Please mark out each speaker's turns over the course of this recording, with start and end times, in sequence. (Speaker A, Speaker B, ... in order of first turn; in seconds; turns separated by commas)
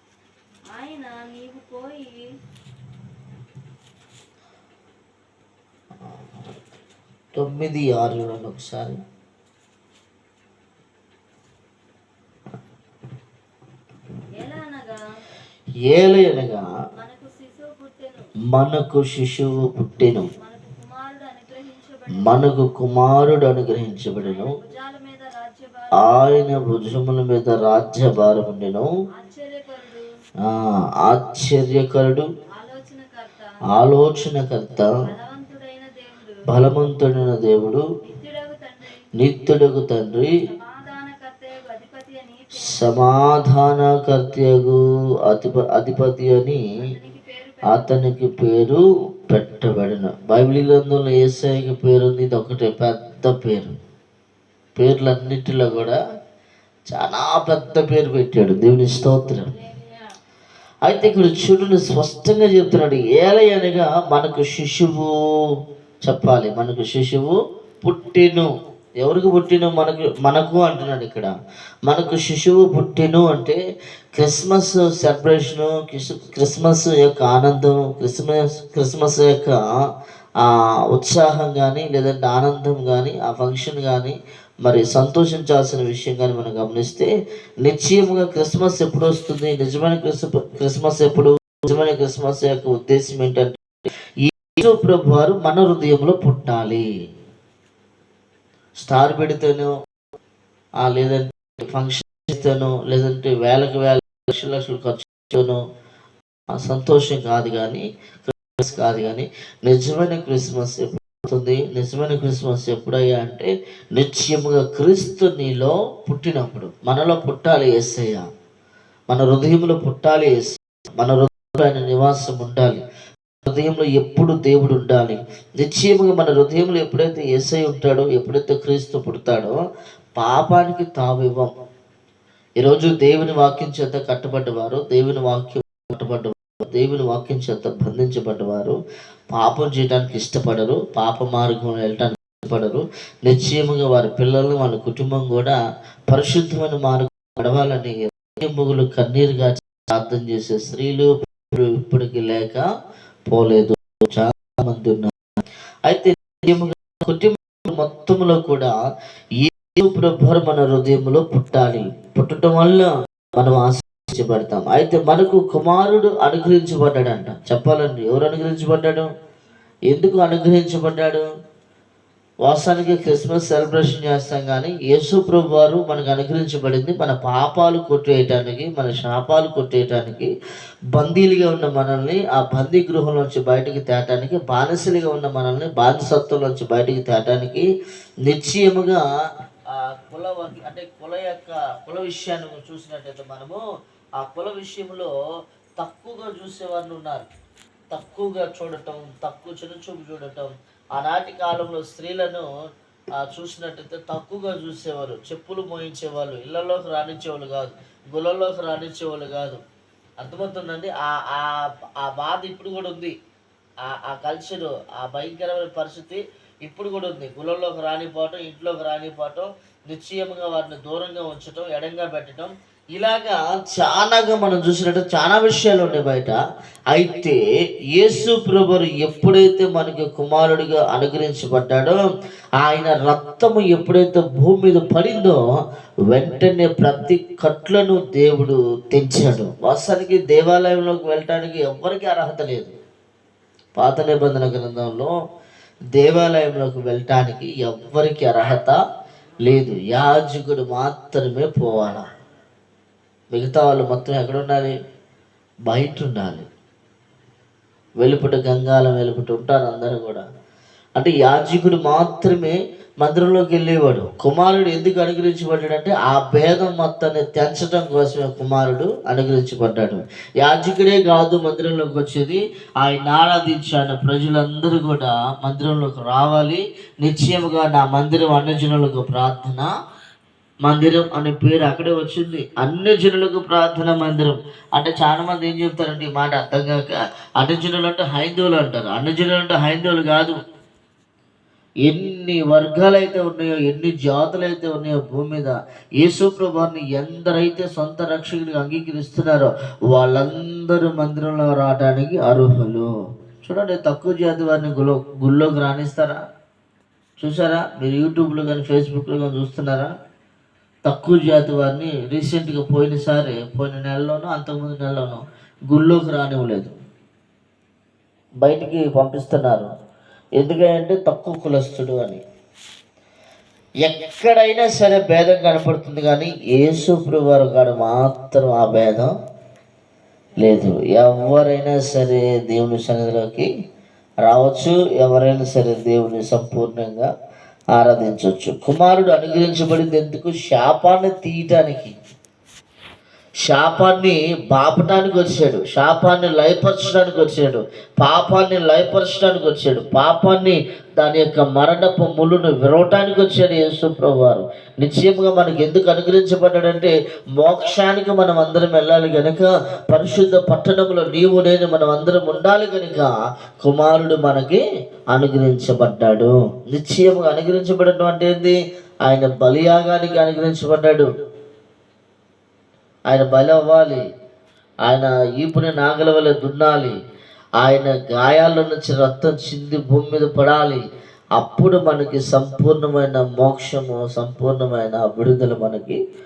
Speaker A: 0.7-2.3, Speaker B: 7.3-9.0, Speaker A: 14.4-15.0, Speaker B: 15.9-16.6, Speaker A: 16.9-18.3, Speaker B: 18.5-20.3, Speaker A: 20.4-22.7, Speaker B: 22.1-24.5, Speaker A: 24.1-26.5, Speaker B: 26.0-28.9, Speaker A: 29.2-30.1, Speaker B: 30.4-32.3, Speaker A: 32.5-33.5, Speaker B: 33.7-34.9, Speaker A: 35.0-36.4, Speaker B: 36.5-37.8, Speaker A: 38.0-39.1, Speaker B: 39.1-40.3, Speaker A: 40.5-43.1, Speaker B: 42.6-46.6, Speaker A: 46.8-48.0, Speaker B: 47.7-53.7, Speaker B: 54.8-56.0, Speaker B: 56.9-59.5, Speaker B: 60.9-65.1, Speaker B: 66.0-68.5, Speaker B: 69.0-71.3, Speaker B: 71.9-73.6, Speaker B: 74.2-79.7, Speaker B: 80.4-87.1, Speaker B: 87.6-93.6, Speaker B: 94.3-96.8, Speaker B: 98.8-99.7, Speaker B: 100.8-105.6, Speaker B: 106.5-118.2, Speaker B: 119.1-122.8, Speaker B: 123.4-129.6, Speaker B: 130.2-131.5, Speaker B: 132.6-138.8, Speaker B: 139.3-145.6, Speaker B: 146.1-152.6, Speaker B: 153.3-155.1, Speaker B: 155.9-158.7, Speaker B: 159.4-169.1, Speaker B: 169.9-171.2, Speaker B: 172.4-180.3, Speaker B: 180.9-187.7, Speaker B: 188.2-189.0, Speaker B: 189.7-193.6, Speaker B: 194.2-195.1, Speaker B: 195.8-197.3, Speaker B: 197.9-202.5, Speaker B: 203.2-209.6, Speaker B: 210.2-213.1, Speaker B: 213.8-226.4, Speaker B: 226.9-227.4, Speaker B: 227.9-232.0, Speaker B: 232.6-235.4, Speaker B: 236.1-242.7, Speaker B: 243.8-245.1, Speaker B: 245.9-248.8, Speaker B: 249.4-252.1, Speaker B: 253.3-254.8, Speaker B: 255.7-256.5, Speaker B: 258.0-260.2, Speaker B: 260.9-279.7, Speaker B: 280.6-290.4, Speaker B: 291.9-302.9, Speaker B: 303.4-306.2, Speaker B: 307.2-309.9, Speaker B: 310.9-316.7, Speaker B: 318.4-319.7, Speaker B: 320.4-322.2, Speaker B: 323.8-329.1, Speaker B: 330.4-333.5, Speaker B: 334.3-337.1, Speaker B: 337.7-341.9, Speaker B: 343.4-364.6, Speaker B: 365.1-371.1, Speaker B: 373.1-374.0, Speaker B: 374.9-376.9, Speaker B: 377.6-380.8, Speaker B: 381.4-386.0